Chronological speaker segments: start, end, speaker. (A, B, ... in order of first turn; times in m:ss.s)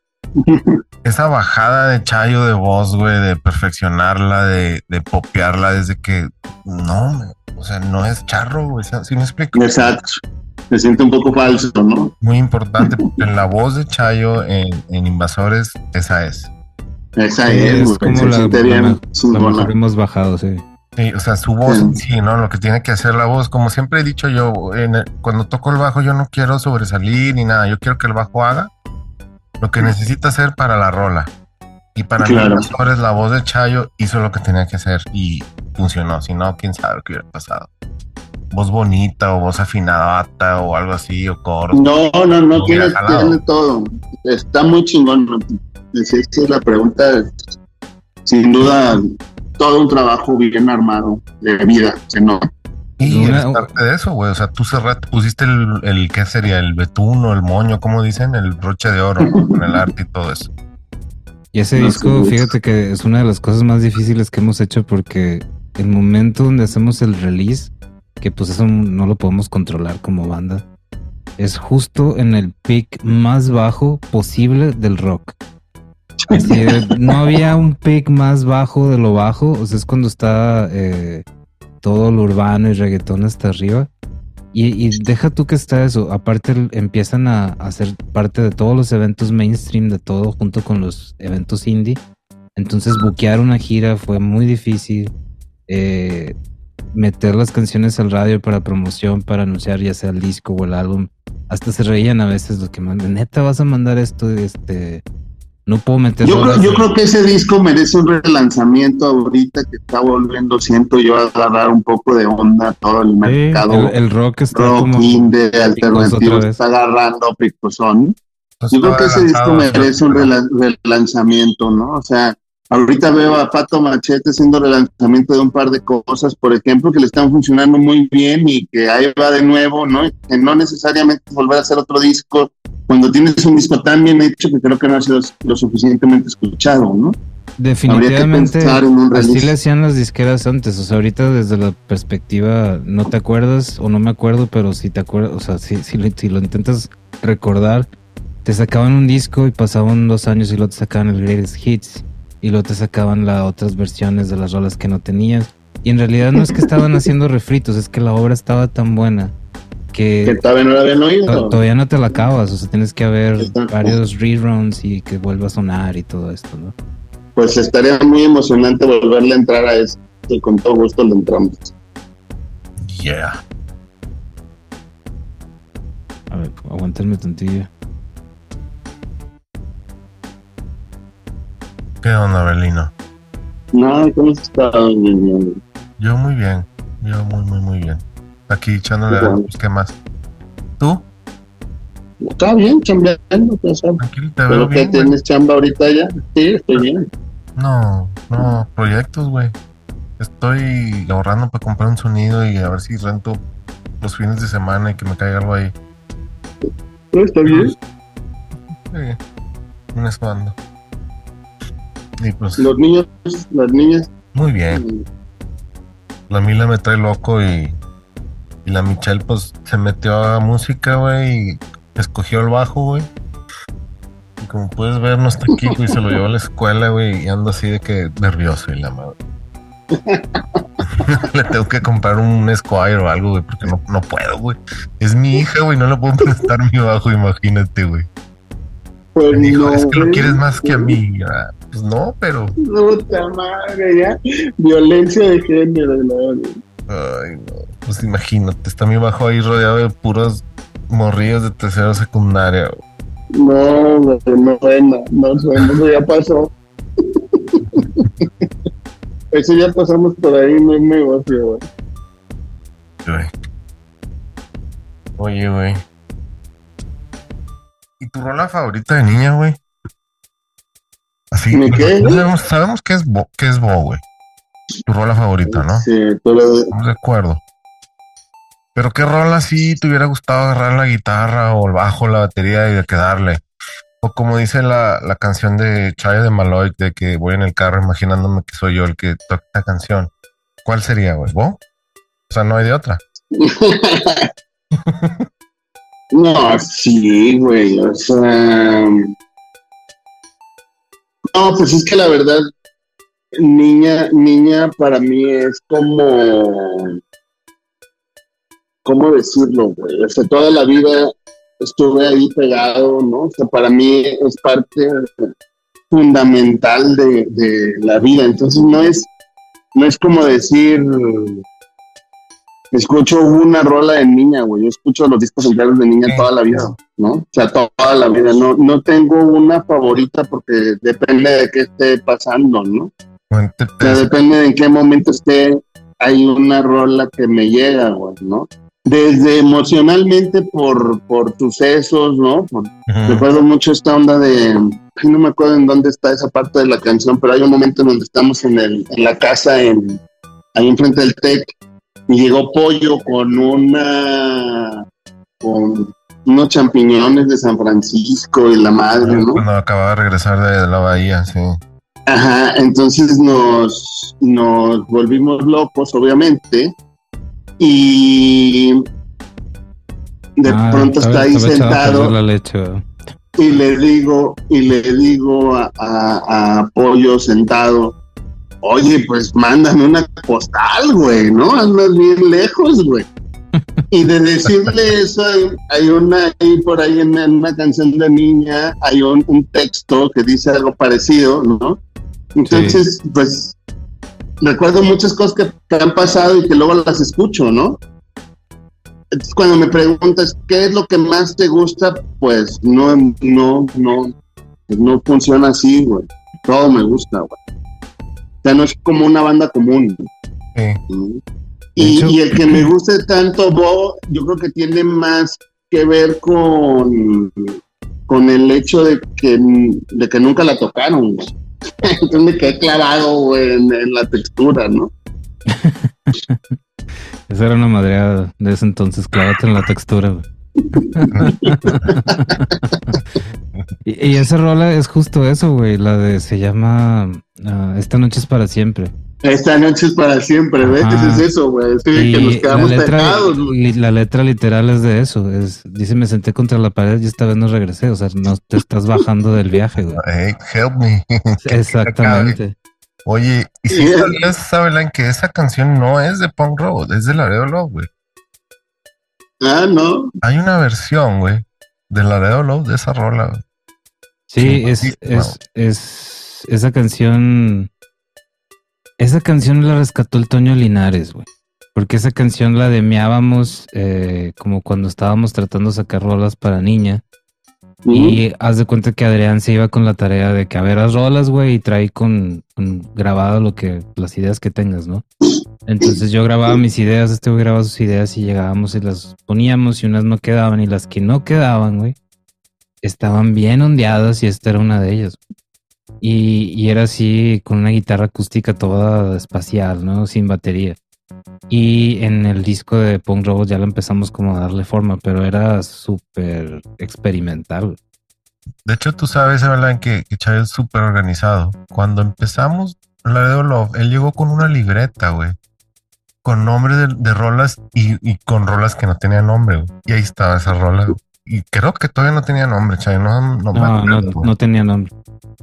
0:00.4-0:00.8 A
0:01.0-0:09.9 B
0:09.6-0:12.1 A
0:12.2-0:16.5 B
0:17.2-0:19.7 A
0:17.5-0:20.6 C
0:21.0-0:28.7 B
0:21.7-0:22.0 A
0:29.6-0:31.3 B
0:32.0-0:37.7 B
0:32.2-0:32.7 A
0:38.5-0:41.8 B
0:41.7-0:47.3 A
0:42.5-0:43.4 B
0:48.3-0:52.5 A
0:53.0-1:00.5 B
0:53.1-0:53.7 C
0:59.3-0:59.8 A
1:01.5-1:10.6 C
1:01.8-1:02.5 A
1:11.4-1:15.4 C
1:16.2-1:17.4 A
1:16.3-1:21.2 C
1:21.8-1:23.9 C
1:24.5-1:32.0 C
1:32.6-1:35.1 C
1:35.7-1:36.4 C
1:36.9-1:45.0 C
1:45.7-1:46.9 C
1:46.2-1:53.9 A
1:53.2-1:56.6 C
1:54.5-1:58.2 A
1:58.6-2:00.3 B
1:58.7-2:17.2 A
2:17.6-2:27.9 C
2:17.9-2:19.6 A
2:28.4-2:39.3 C
2:39.9-2:40.4 C
2:40.3-2:41.6 A
2:41.3-2:46.8 C
2:43.4-2:44.0 A
2:47.4-2:51.7 A
2:52.8-2:53.4 B
2:56.3-2:57.7 C
3:02.0-3:02.9 B
3:03.7-3:05.6 A
3:06.0-3:10.0 B
3:09.1-3:09.5 A
3:10.8-3:11.1 B
3:12.2-3:17.0 A
3:14.0-3:15.2 B
3:17.6-3:19.5 B
3:20.2-3:23.4 B
3:24.0-3:25.7 B
3:27.1-3:27.7 A
3:27.5-3:27.8 B
3:28.9-3:29.2 B
3:29.9-3:30.6 B
3:32.2-3:32.7 B
3:32.6-3:34.1 A
3:34.3-3:34.8 B
3:34.7-3:35.0 A
3:36.3-3:37.8 B
3:38.6-3:43.1 B
3:44.4-3:49.2 B
3:49.9-3:50.7 A
3:51.0-3:58.1 B
3:59.2-4:01.0 A
3:59.3-4:02.6 B
4:02.6-4:06.6 A
4:06.9-4:12.8 B
4:13.3-4:16.5 A
4:17.0-4:18.5 A
4:19.3-4:21.6 A
4:23.0-4:23.3 B
4:25.2-4:25.8 B
4:28.0-4:29.6 B
4:31.3-4:34.0 B
4:31.5-4:32.2 A
4:34.9-4:35.9 B
4:35.5-4:36.7 A
4:36.7-4:37.4 B
4:38.8-4:43.4 B
4:44.0-4:50.1 B
4:50.6-4:51.6 B
4:52.3-4:53.0 B
4:53.4-4:54.3 A
4:54.7-4:55.3 B
4:56.1-4:59.1 A
5:01.3-5:02.4 A
5:03.4-5:07.0 A
5:08.8-5:15.3 A
5:15.9-5:19.1 A
5:19.8-5:21.4 A
5:22.7-5:32.9 A
5:33.3-5:34.1 B
5:33.8-5:50.0 A
5:42.9-5:43.3 B
5:50.6-5:51.5 A
5:52.1-5:54.8 A
5:55.4-5:59.4 A
5:59.0-6:01.6 B
6:02.1-6:06.7 A
6:07.6-6:08.8 A
6:10.4-6:12.1 A
6:10.5-6:12.8 C
6:13.4-6:18.0 A
6:18.6-6:23.1 A
6:23.9-6:31.8 A
6:32.4-6:33.6 A
6:32.4-6:32.8 C
6:34.4-6:37.8 A
6:39.3-6:44.1 A
6:44.7-6:47.4 A
6:48.4-6:50.1 A
6:50.6-6:50.8 B
6:50.9-6:51.2 A
6:51.8-6:57.6 A
6:51.8-6:52.6 C
6:58.1-7:01.3 A
7:01.8-7:04.9 A
7:05.5-7:06.6 C
7:07.3-7:10.2 C
7:10.8-7:12.1 A
7:10.8-7:13.0 C
7:11.1-7:11.9 B
7:13.8-7:18.9 C
7:19.2-7:23.6 A
7:20.6-7:21.3 C
7:21.9-7:30.0 C
7:30.0-7:32.4 B
7:31.4-7:32.6 C
7:33.0-7:37.9 B
7:33.7-7:34.2 A
7:39.4-7:40.1 A
7:40.2-7:43.4 B
7:44.3-7:47.7 C
7:44.4-7:45.4 B
7:49.0-7:57.0 C
7:57.9-7:58.2 A
7:57.9-8:05.0 C
8:05.7-8:12.0 C
8:12.8-8:15.2 C
8:16.0-8:20.8 C
8:21.5-8:27.8 C
8:28.6-8:35.4 B
8:36.2-8:44.3 B
8:43.6-8:44.9 C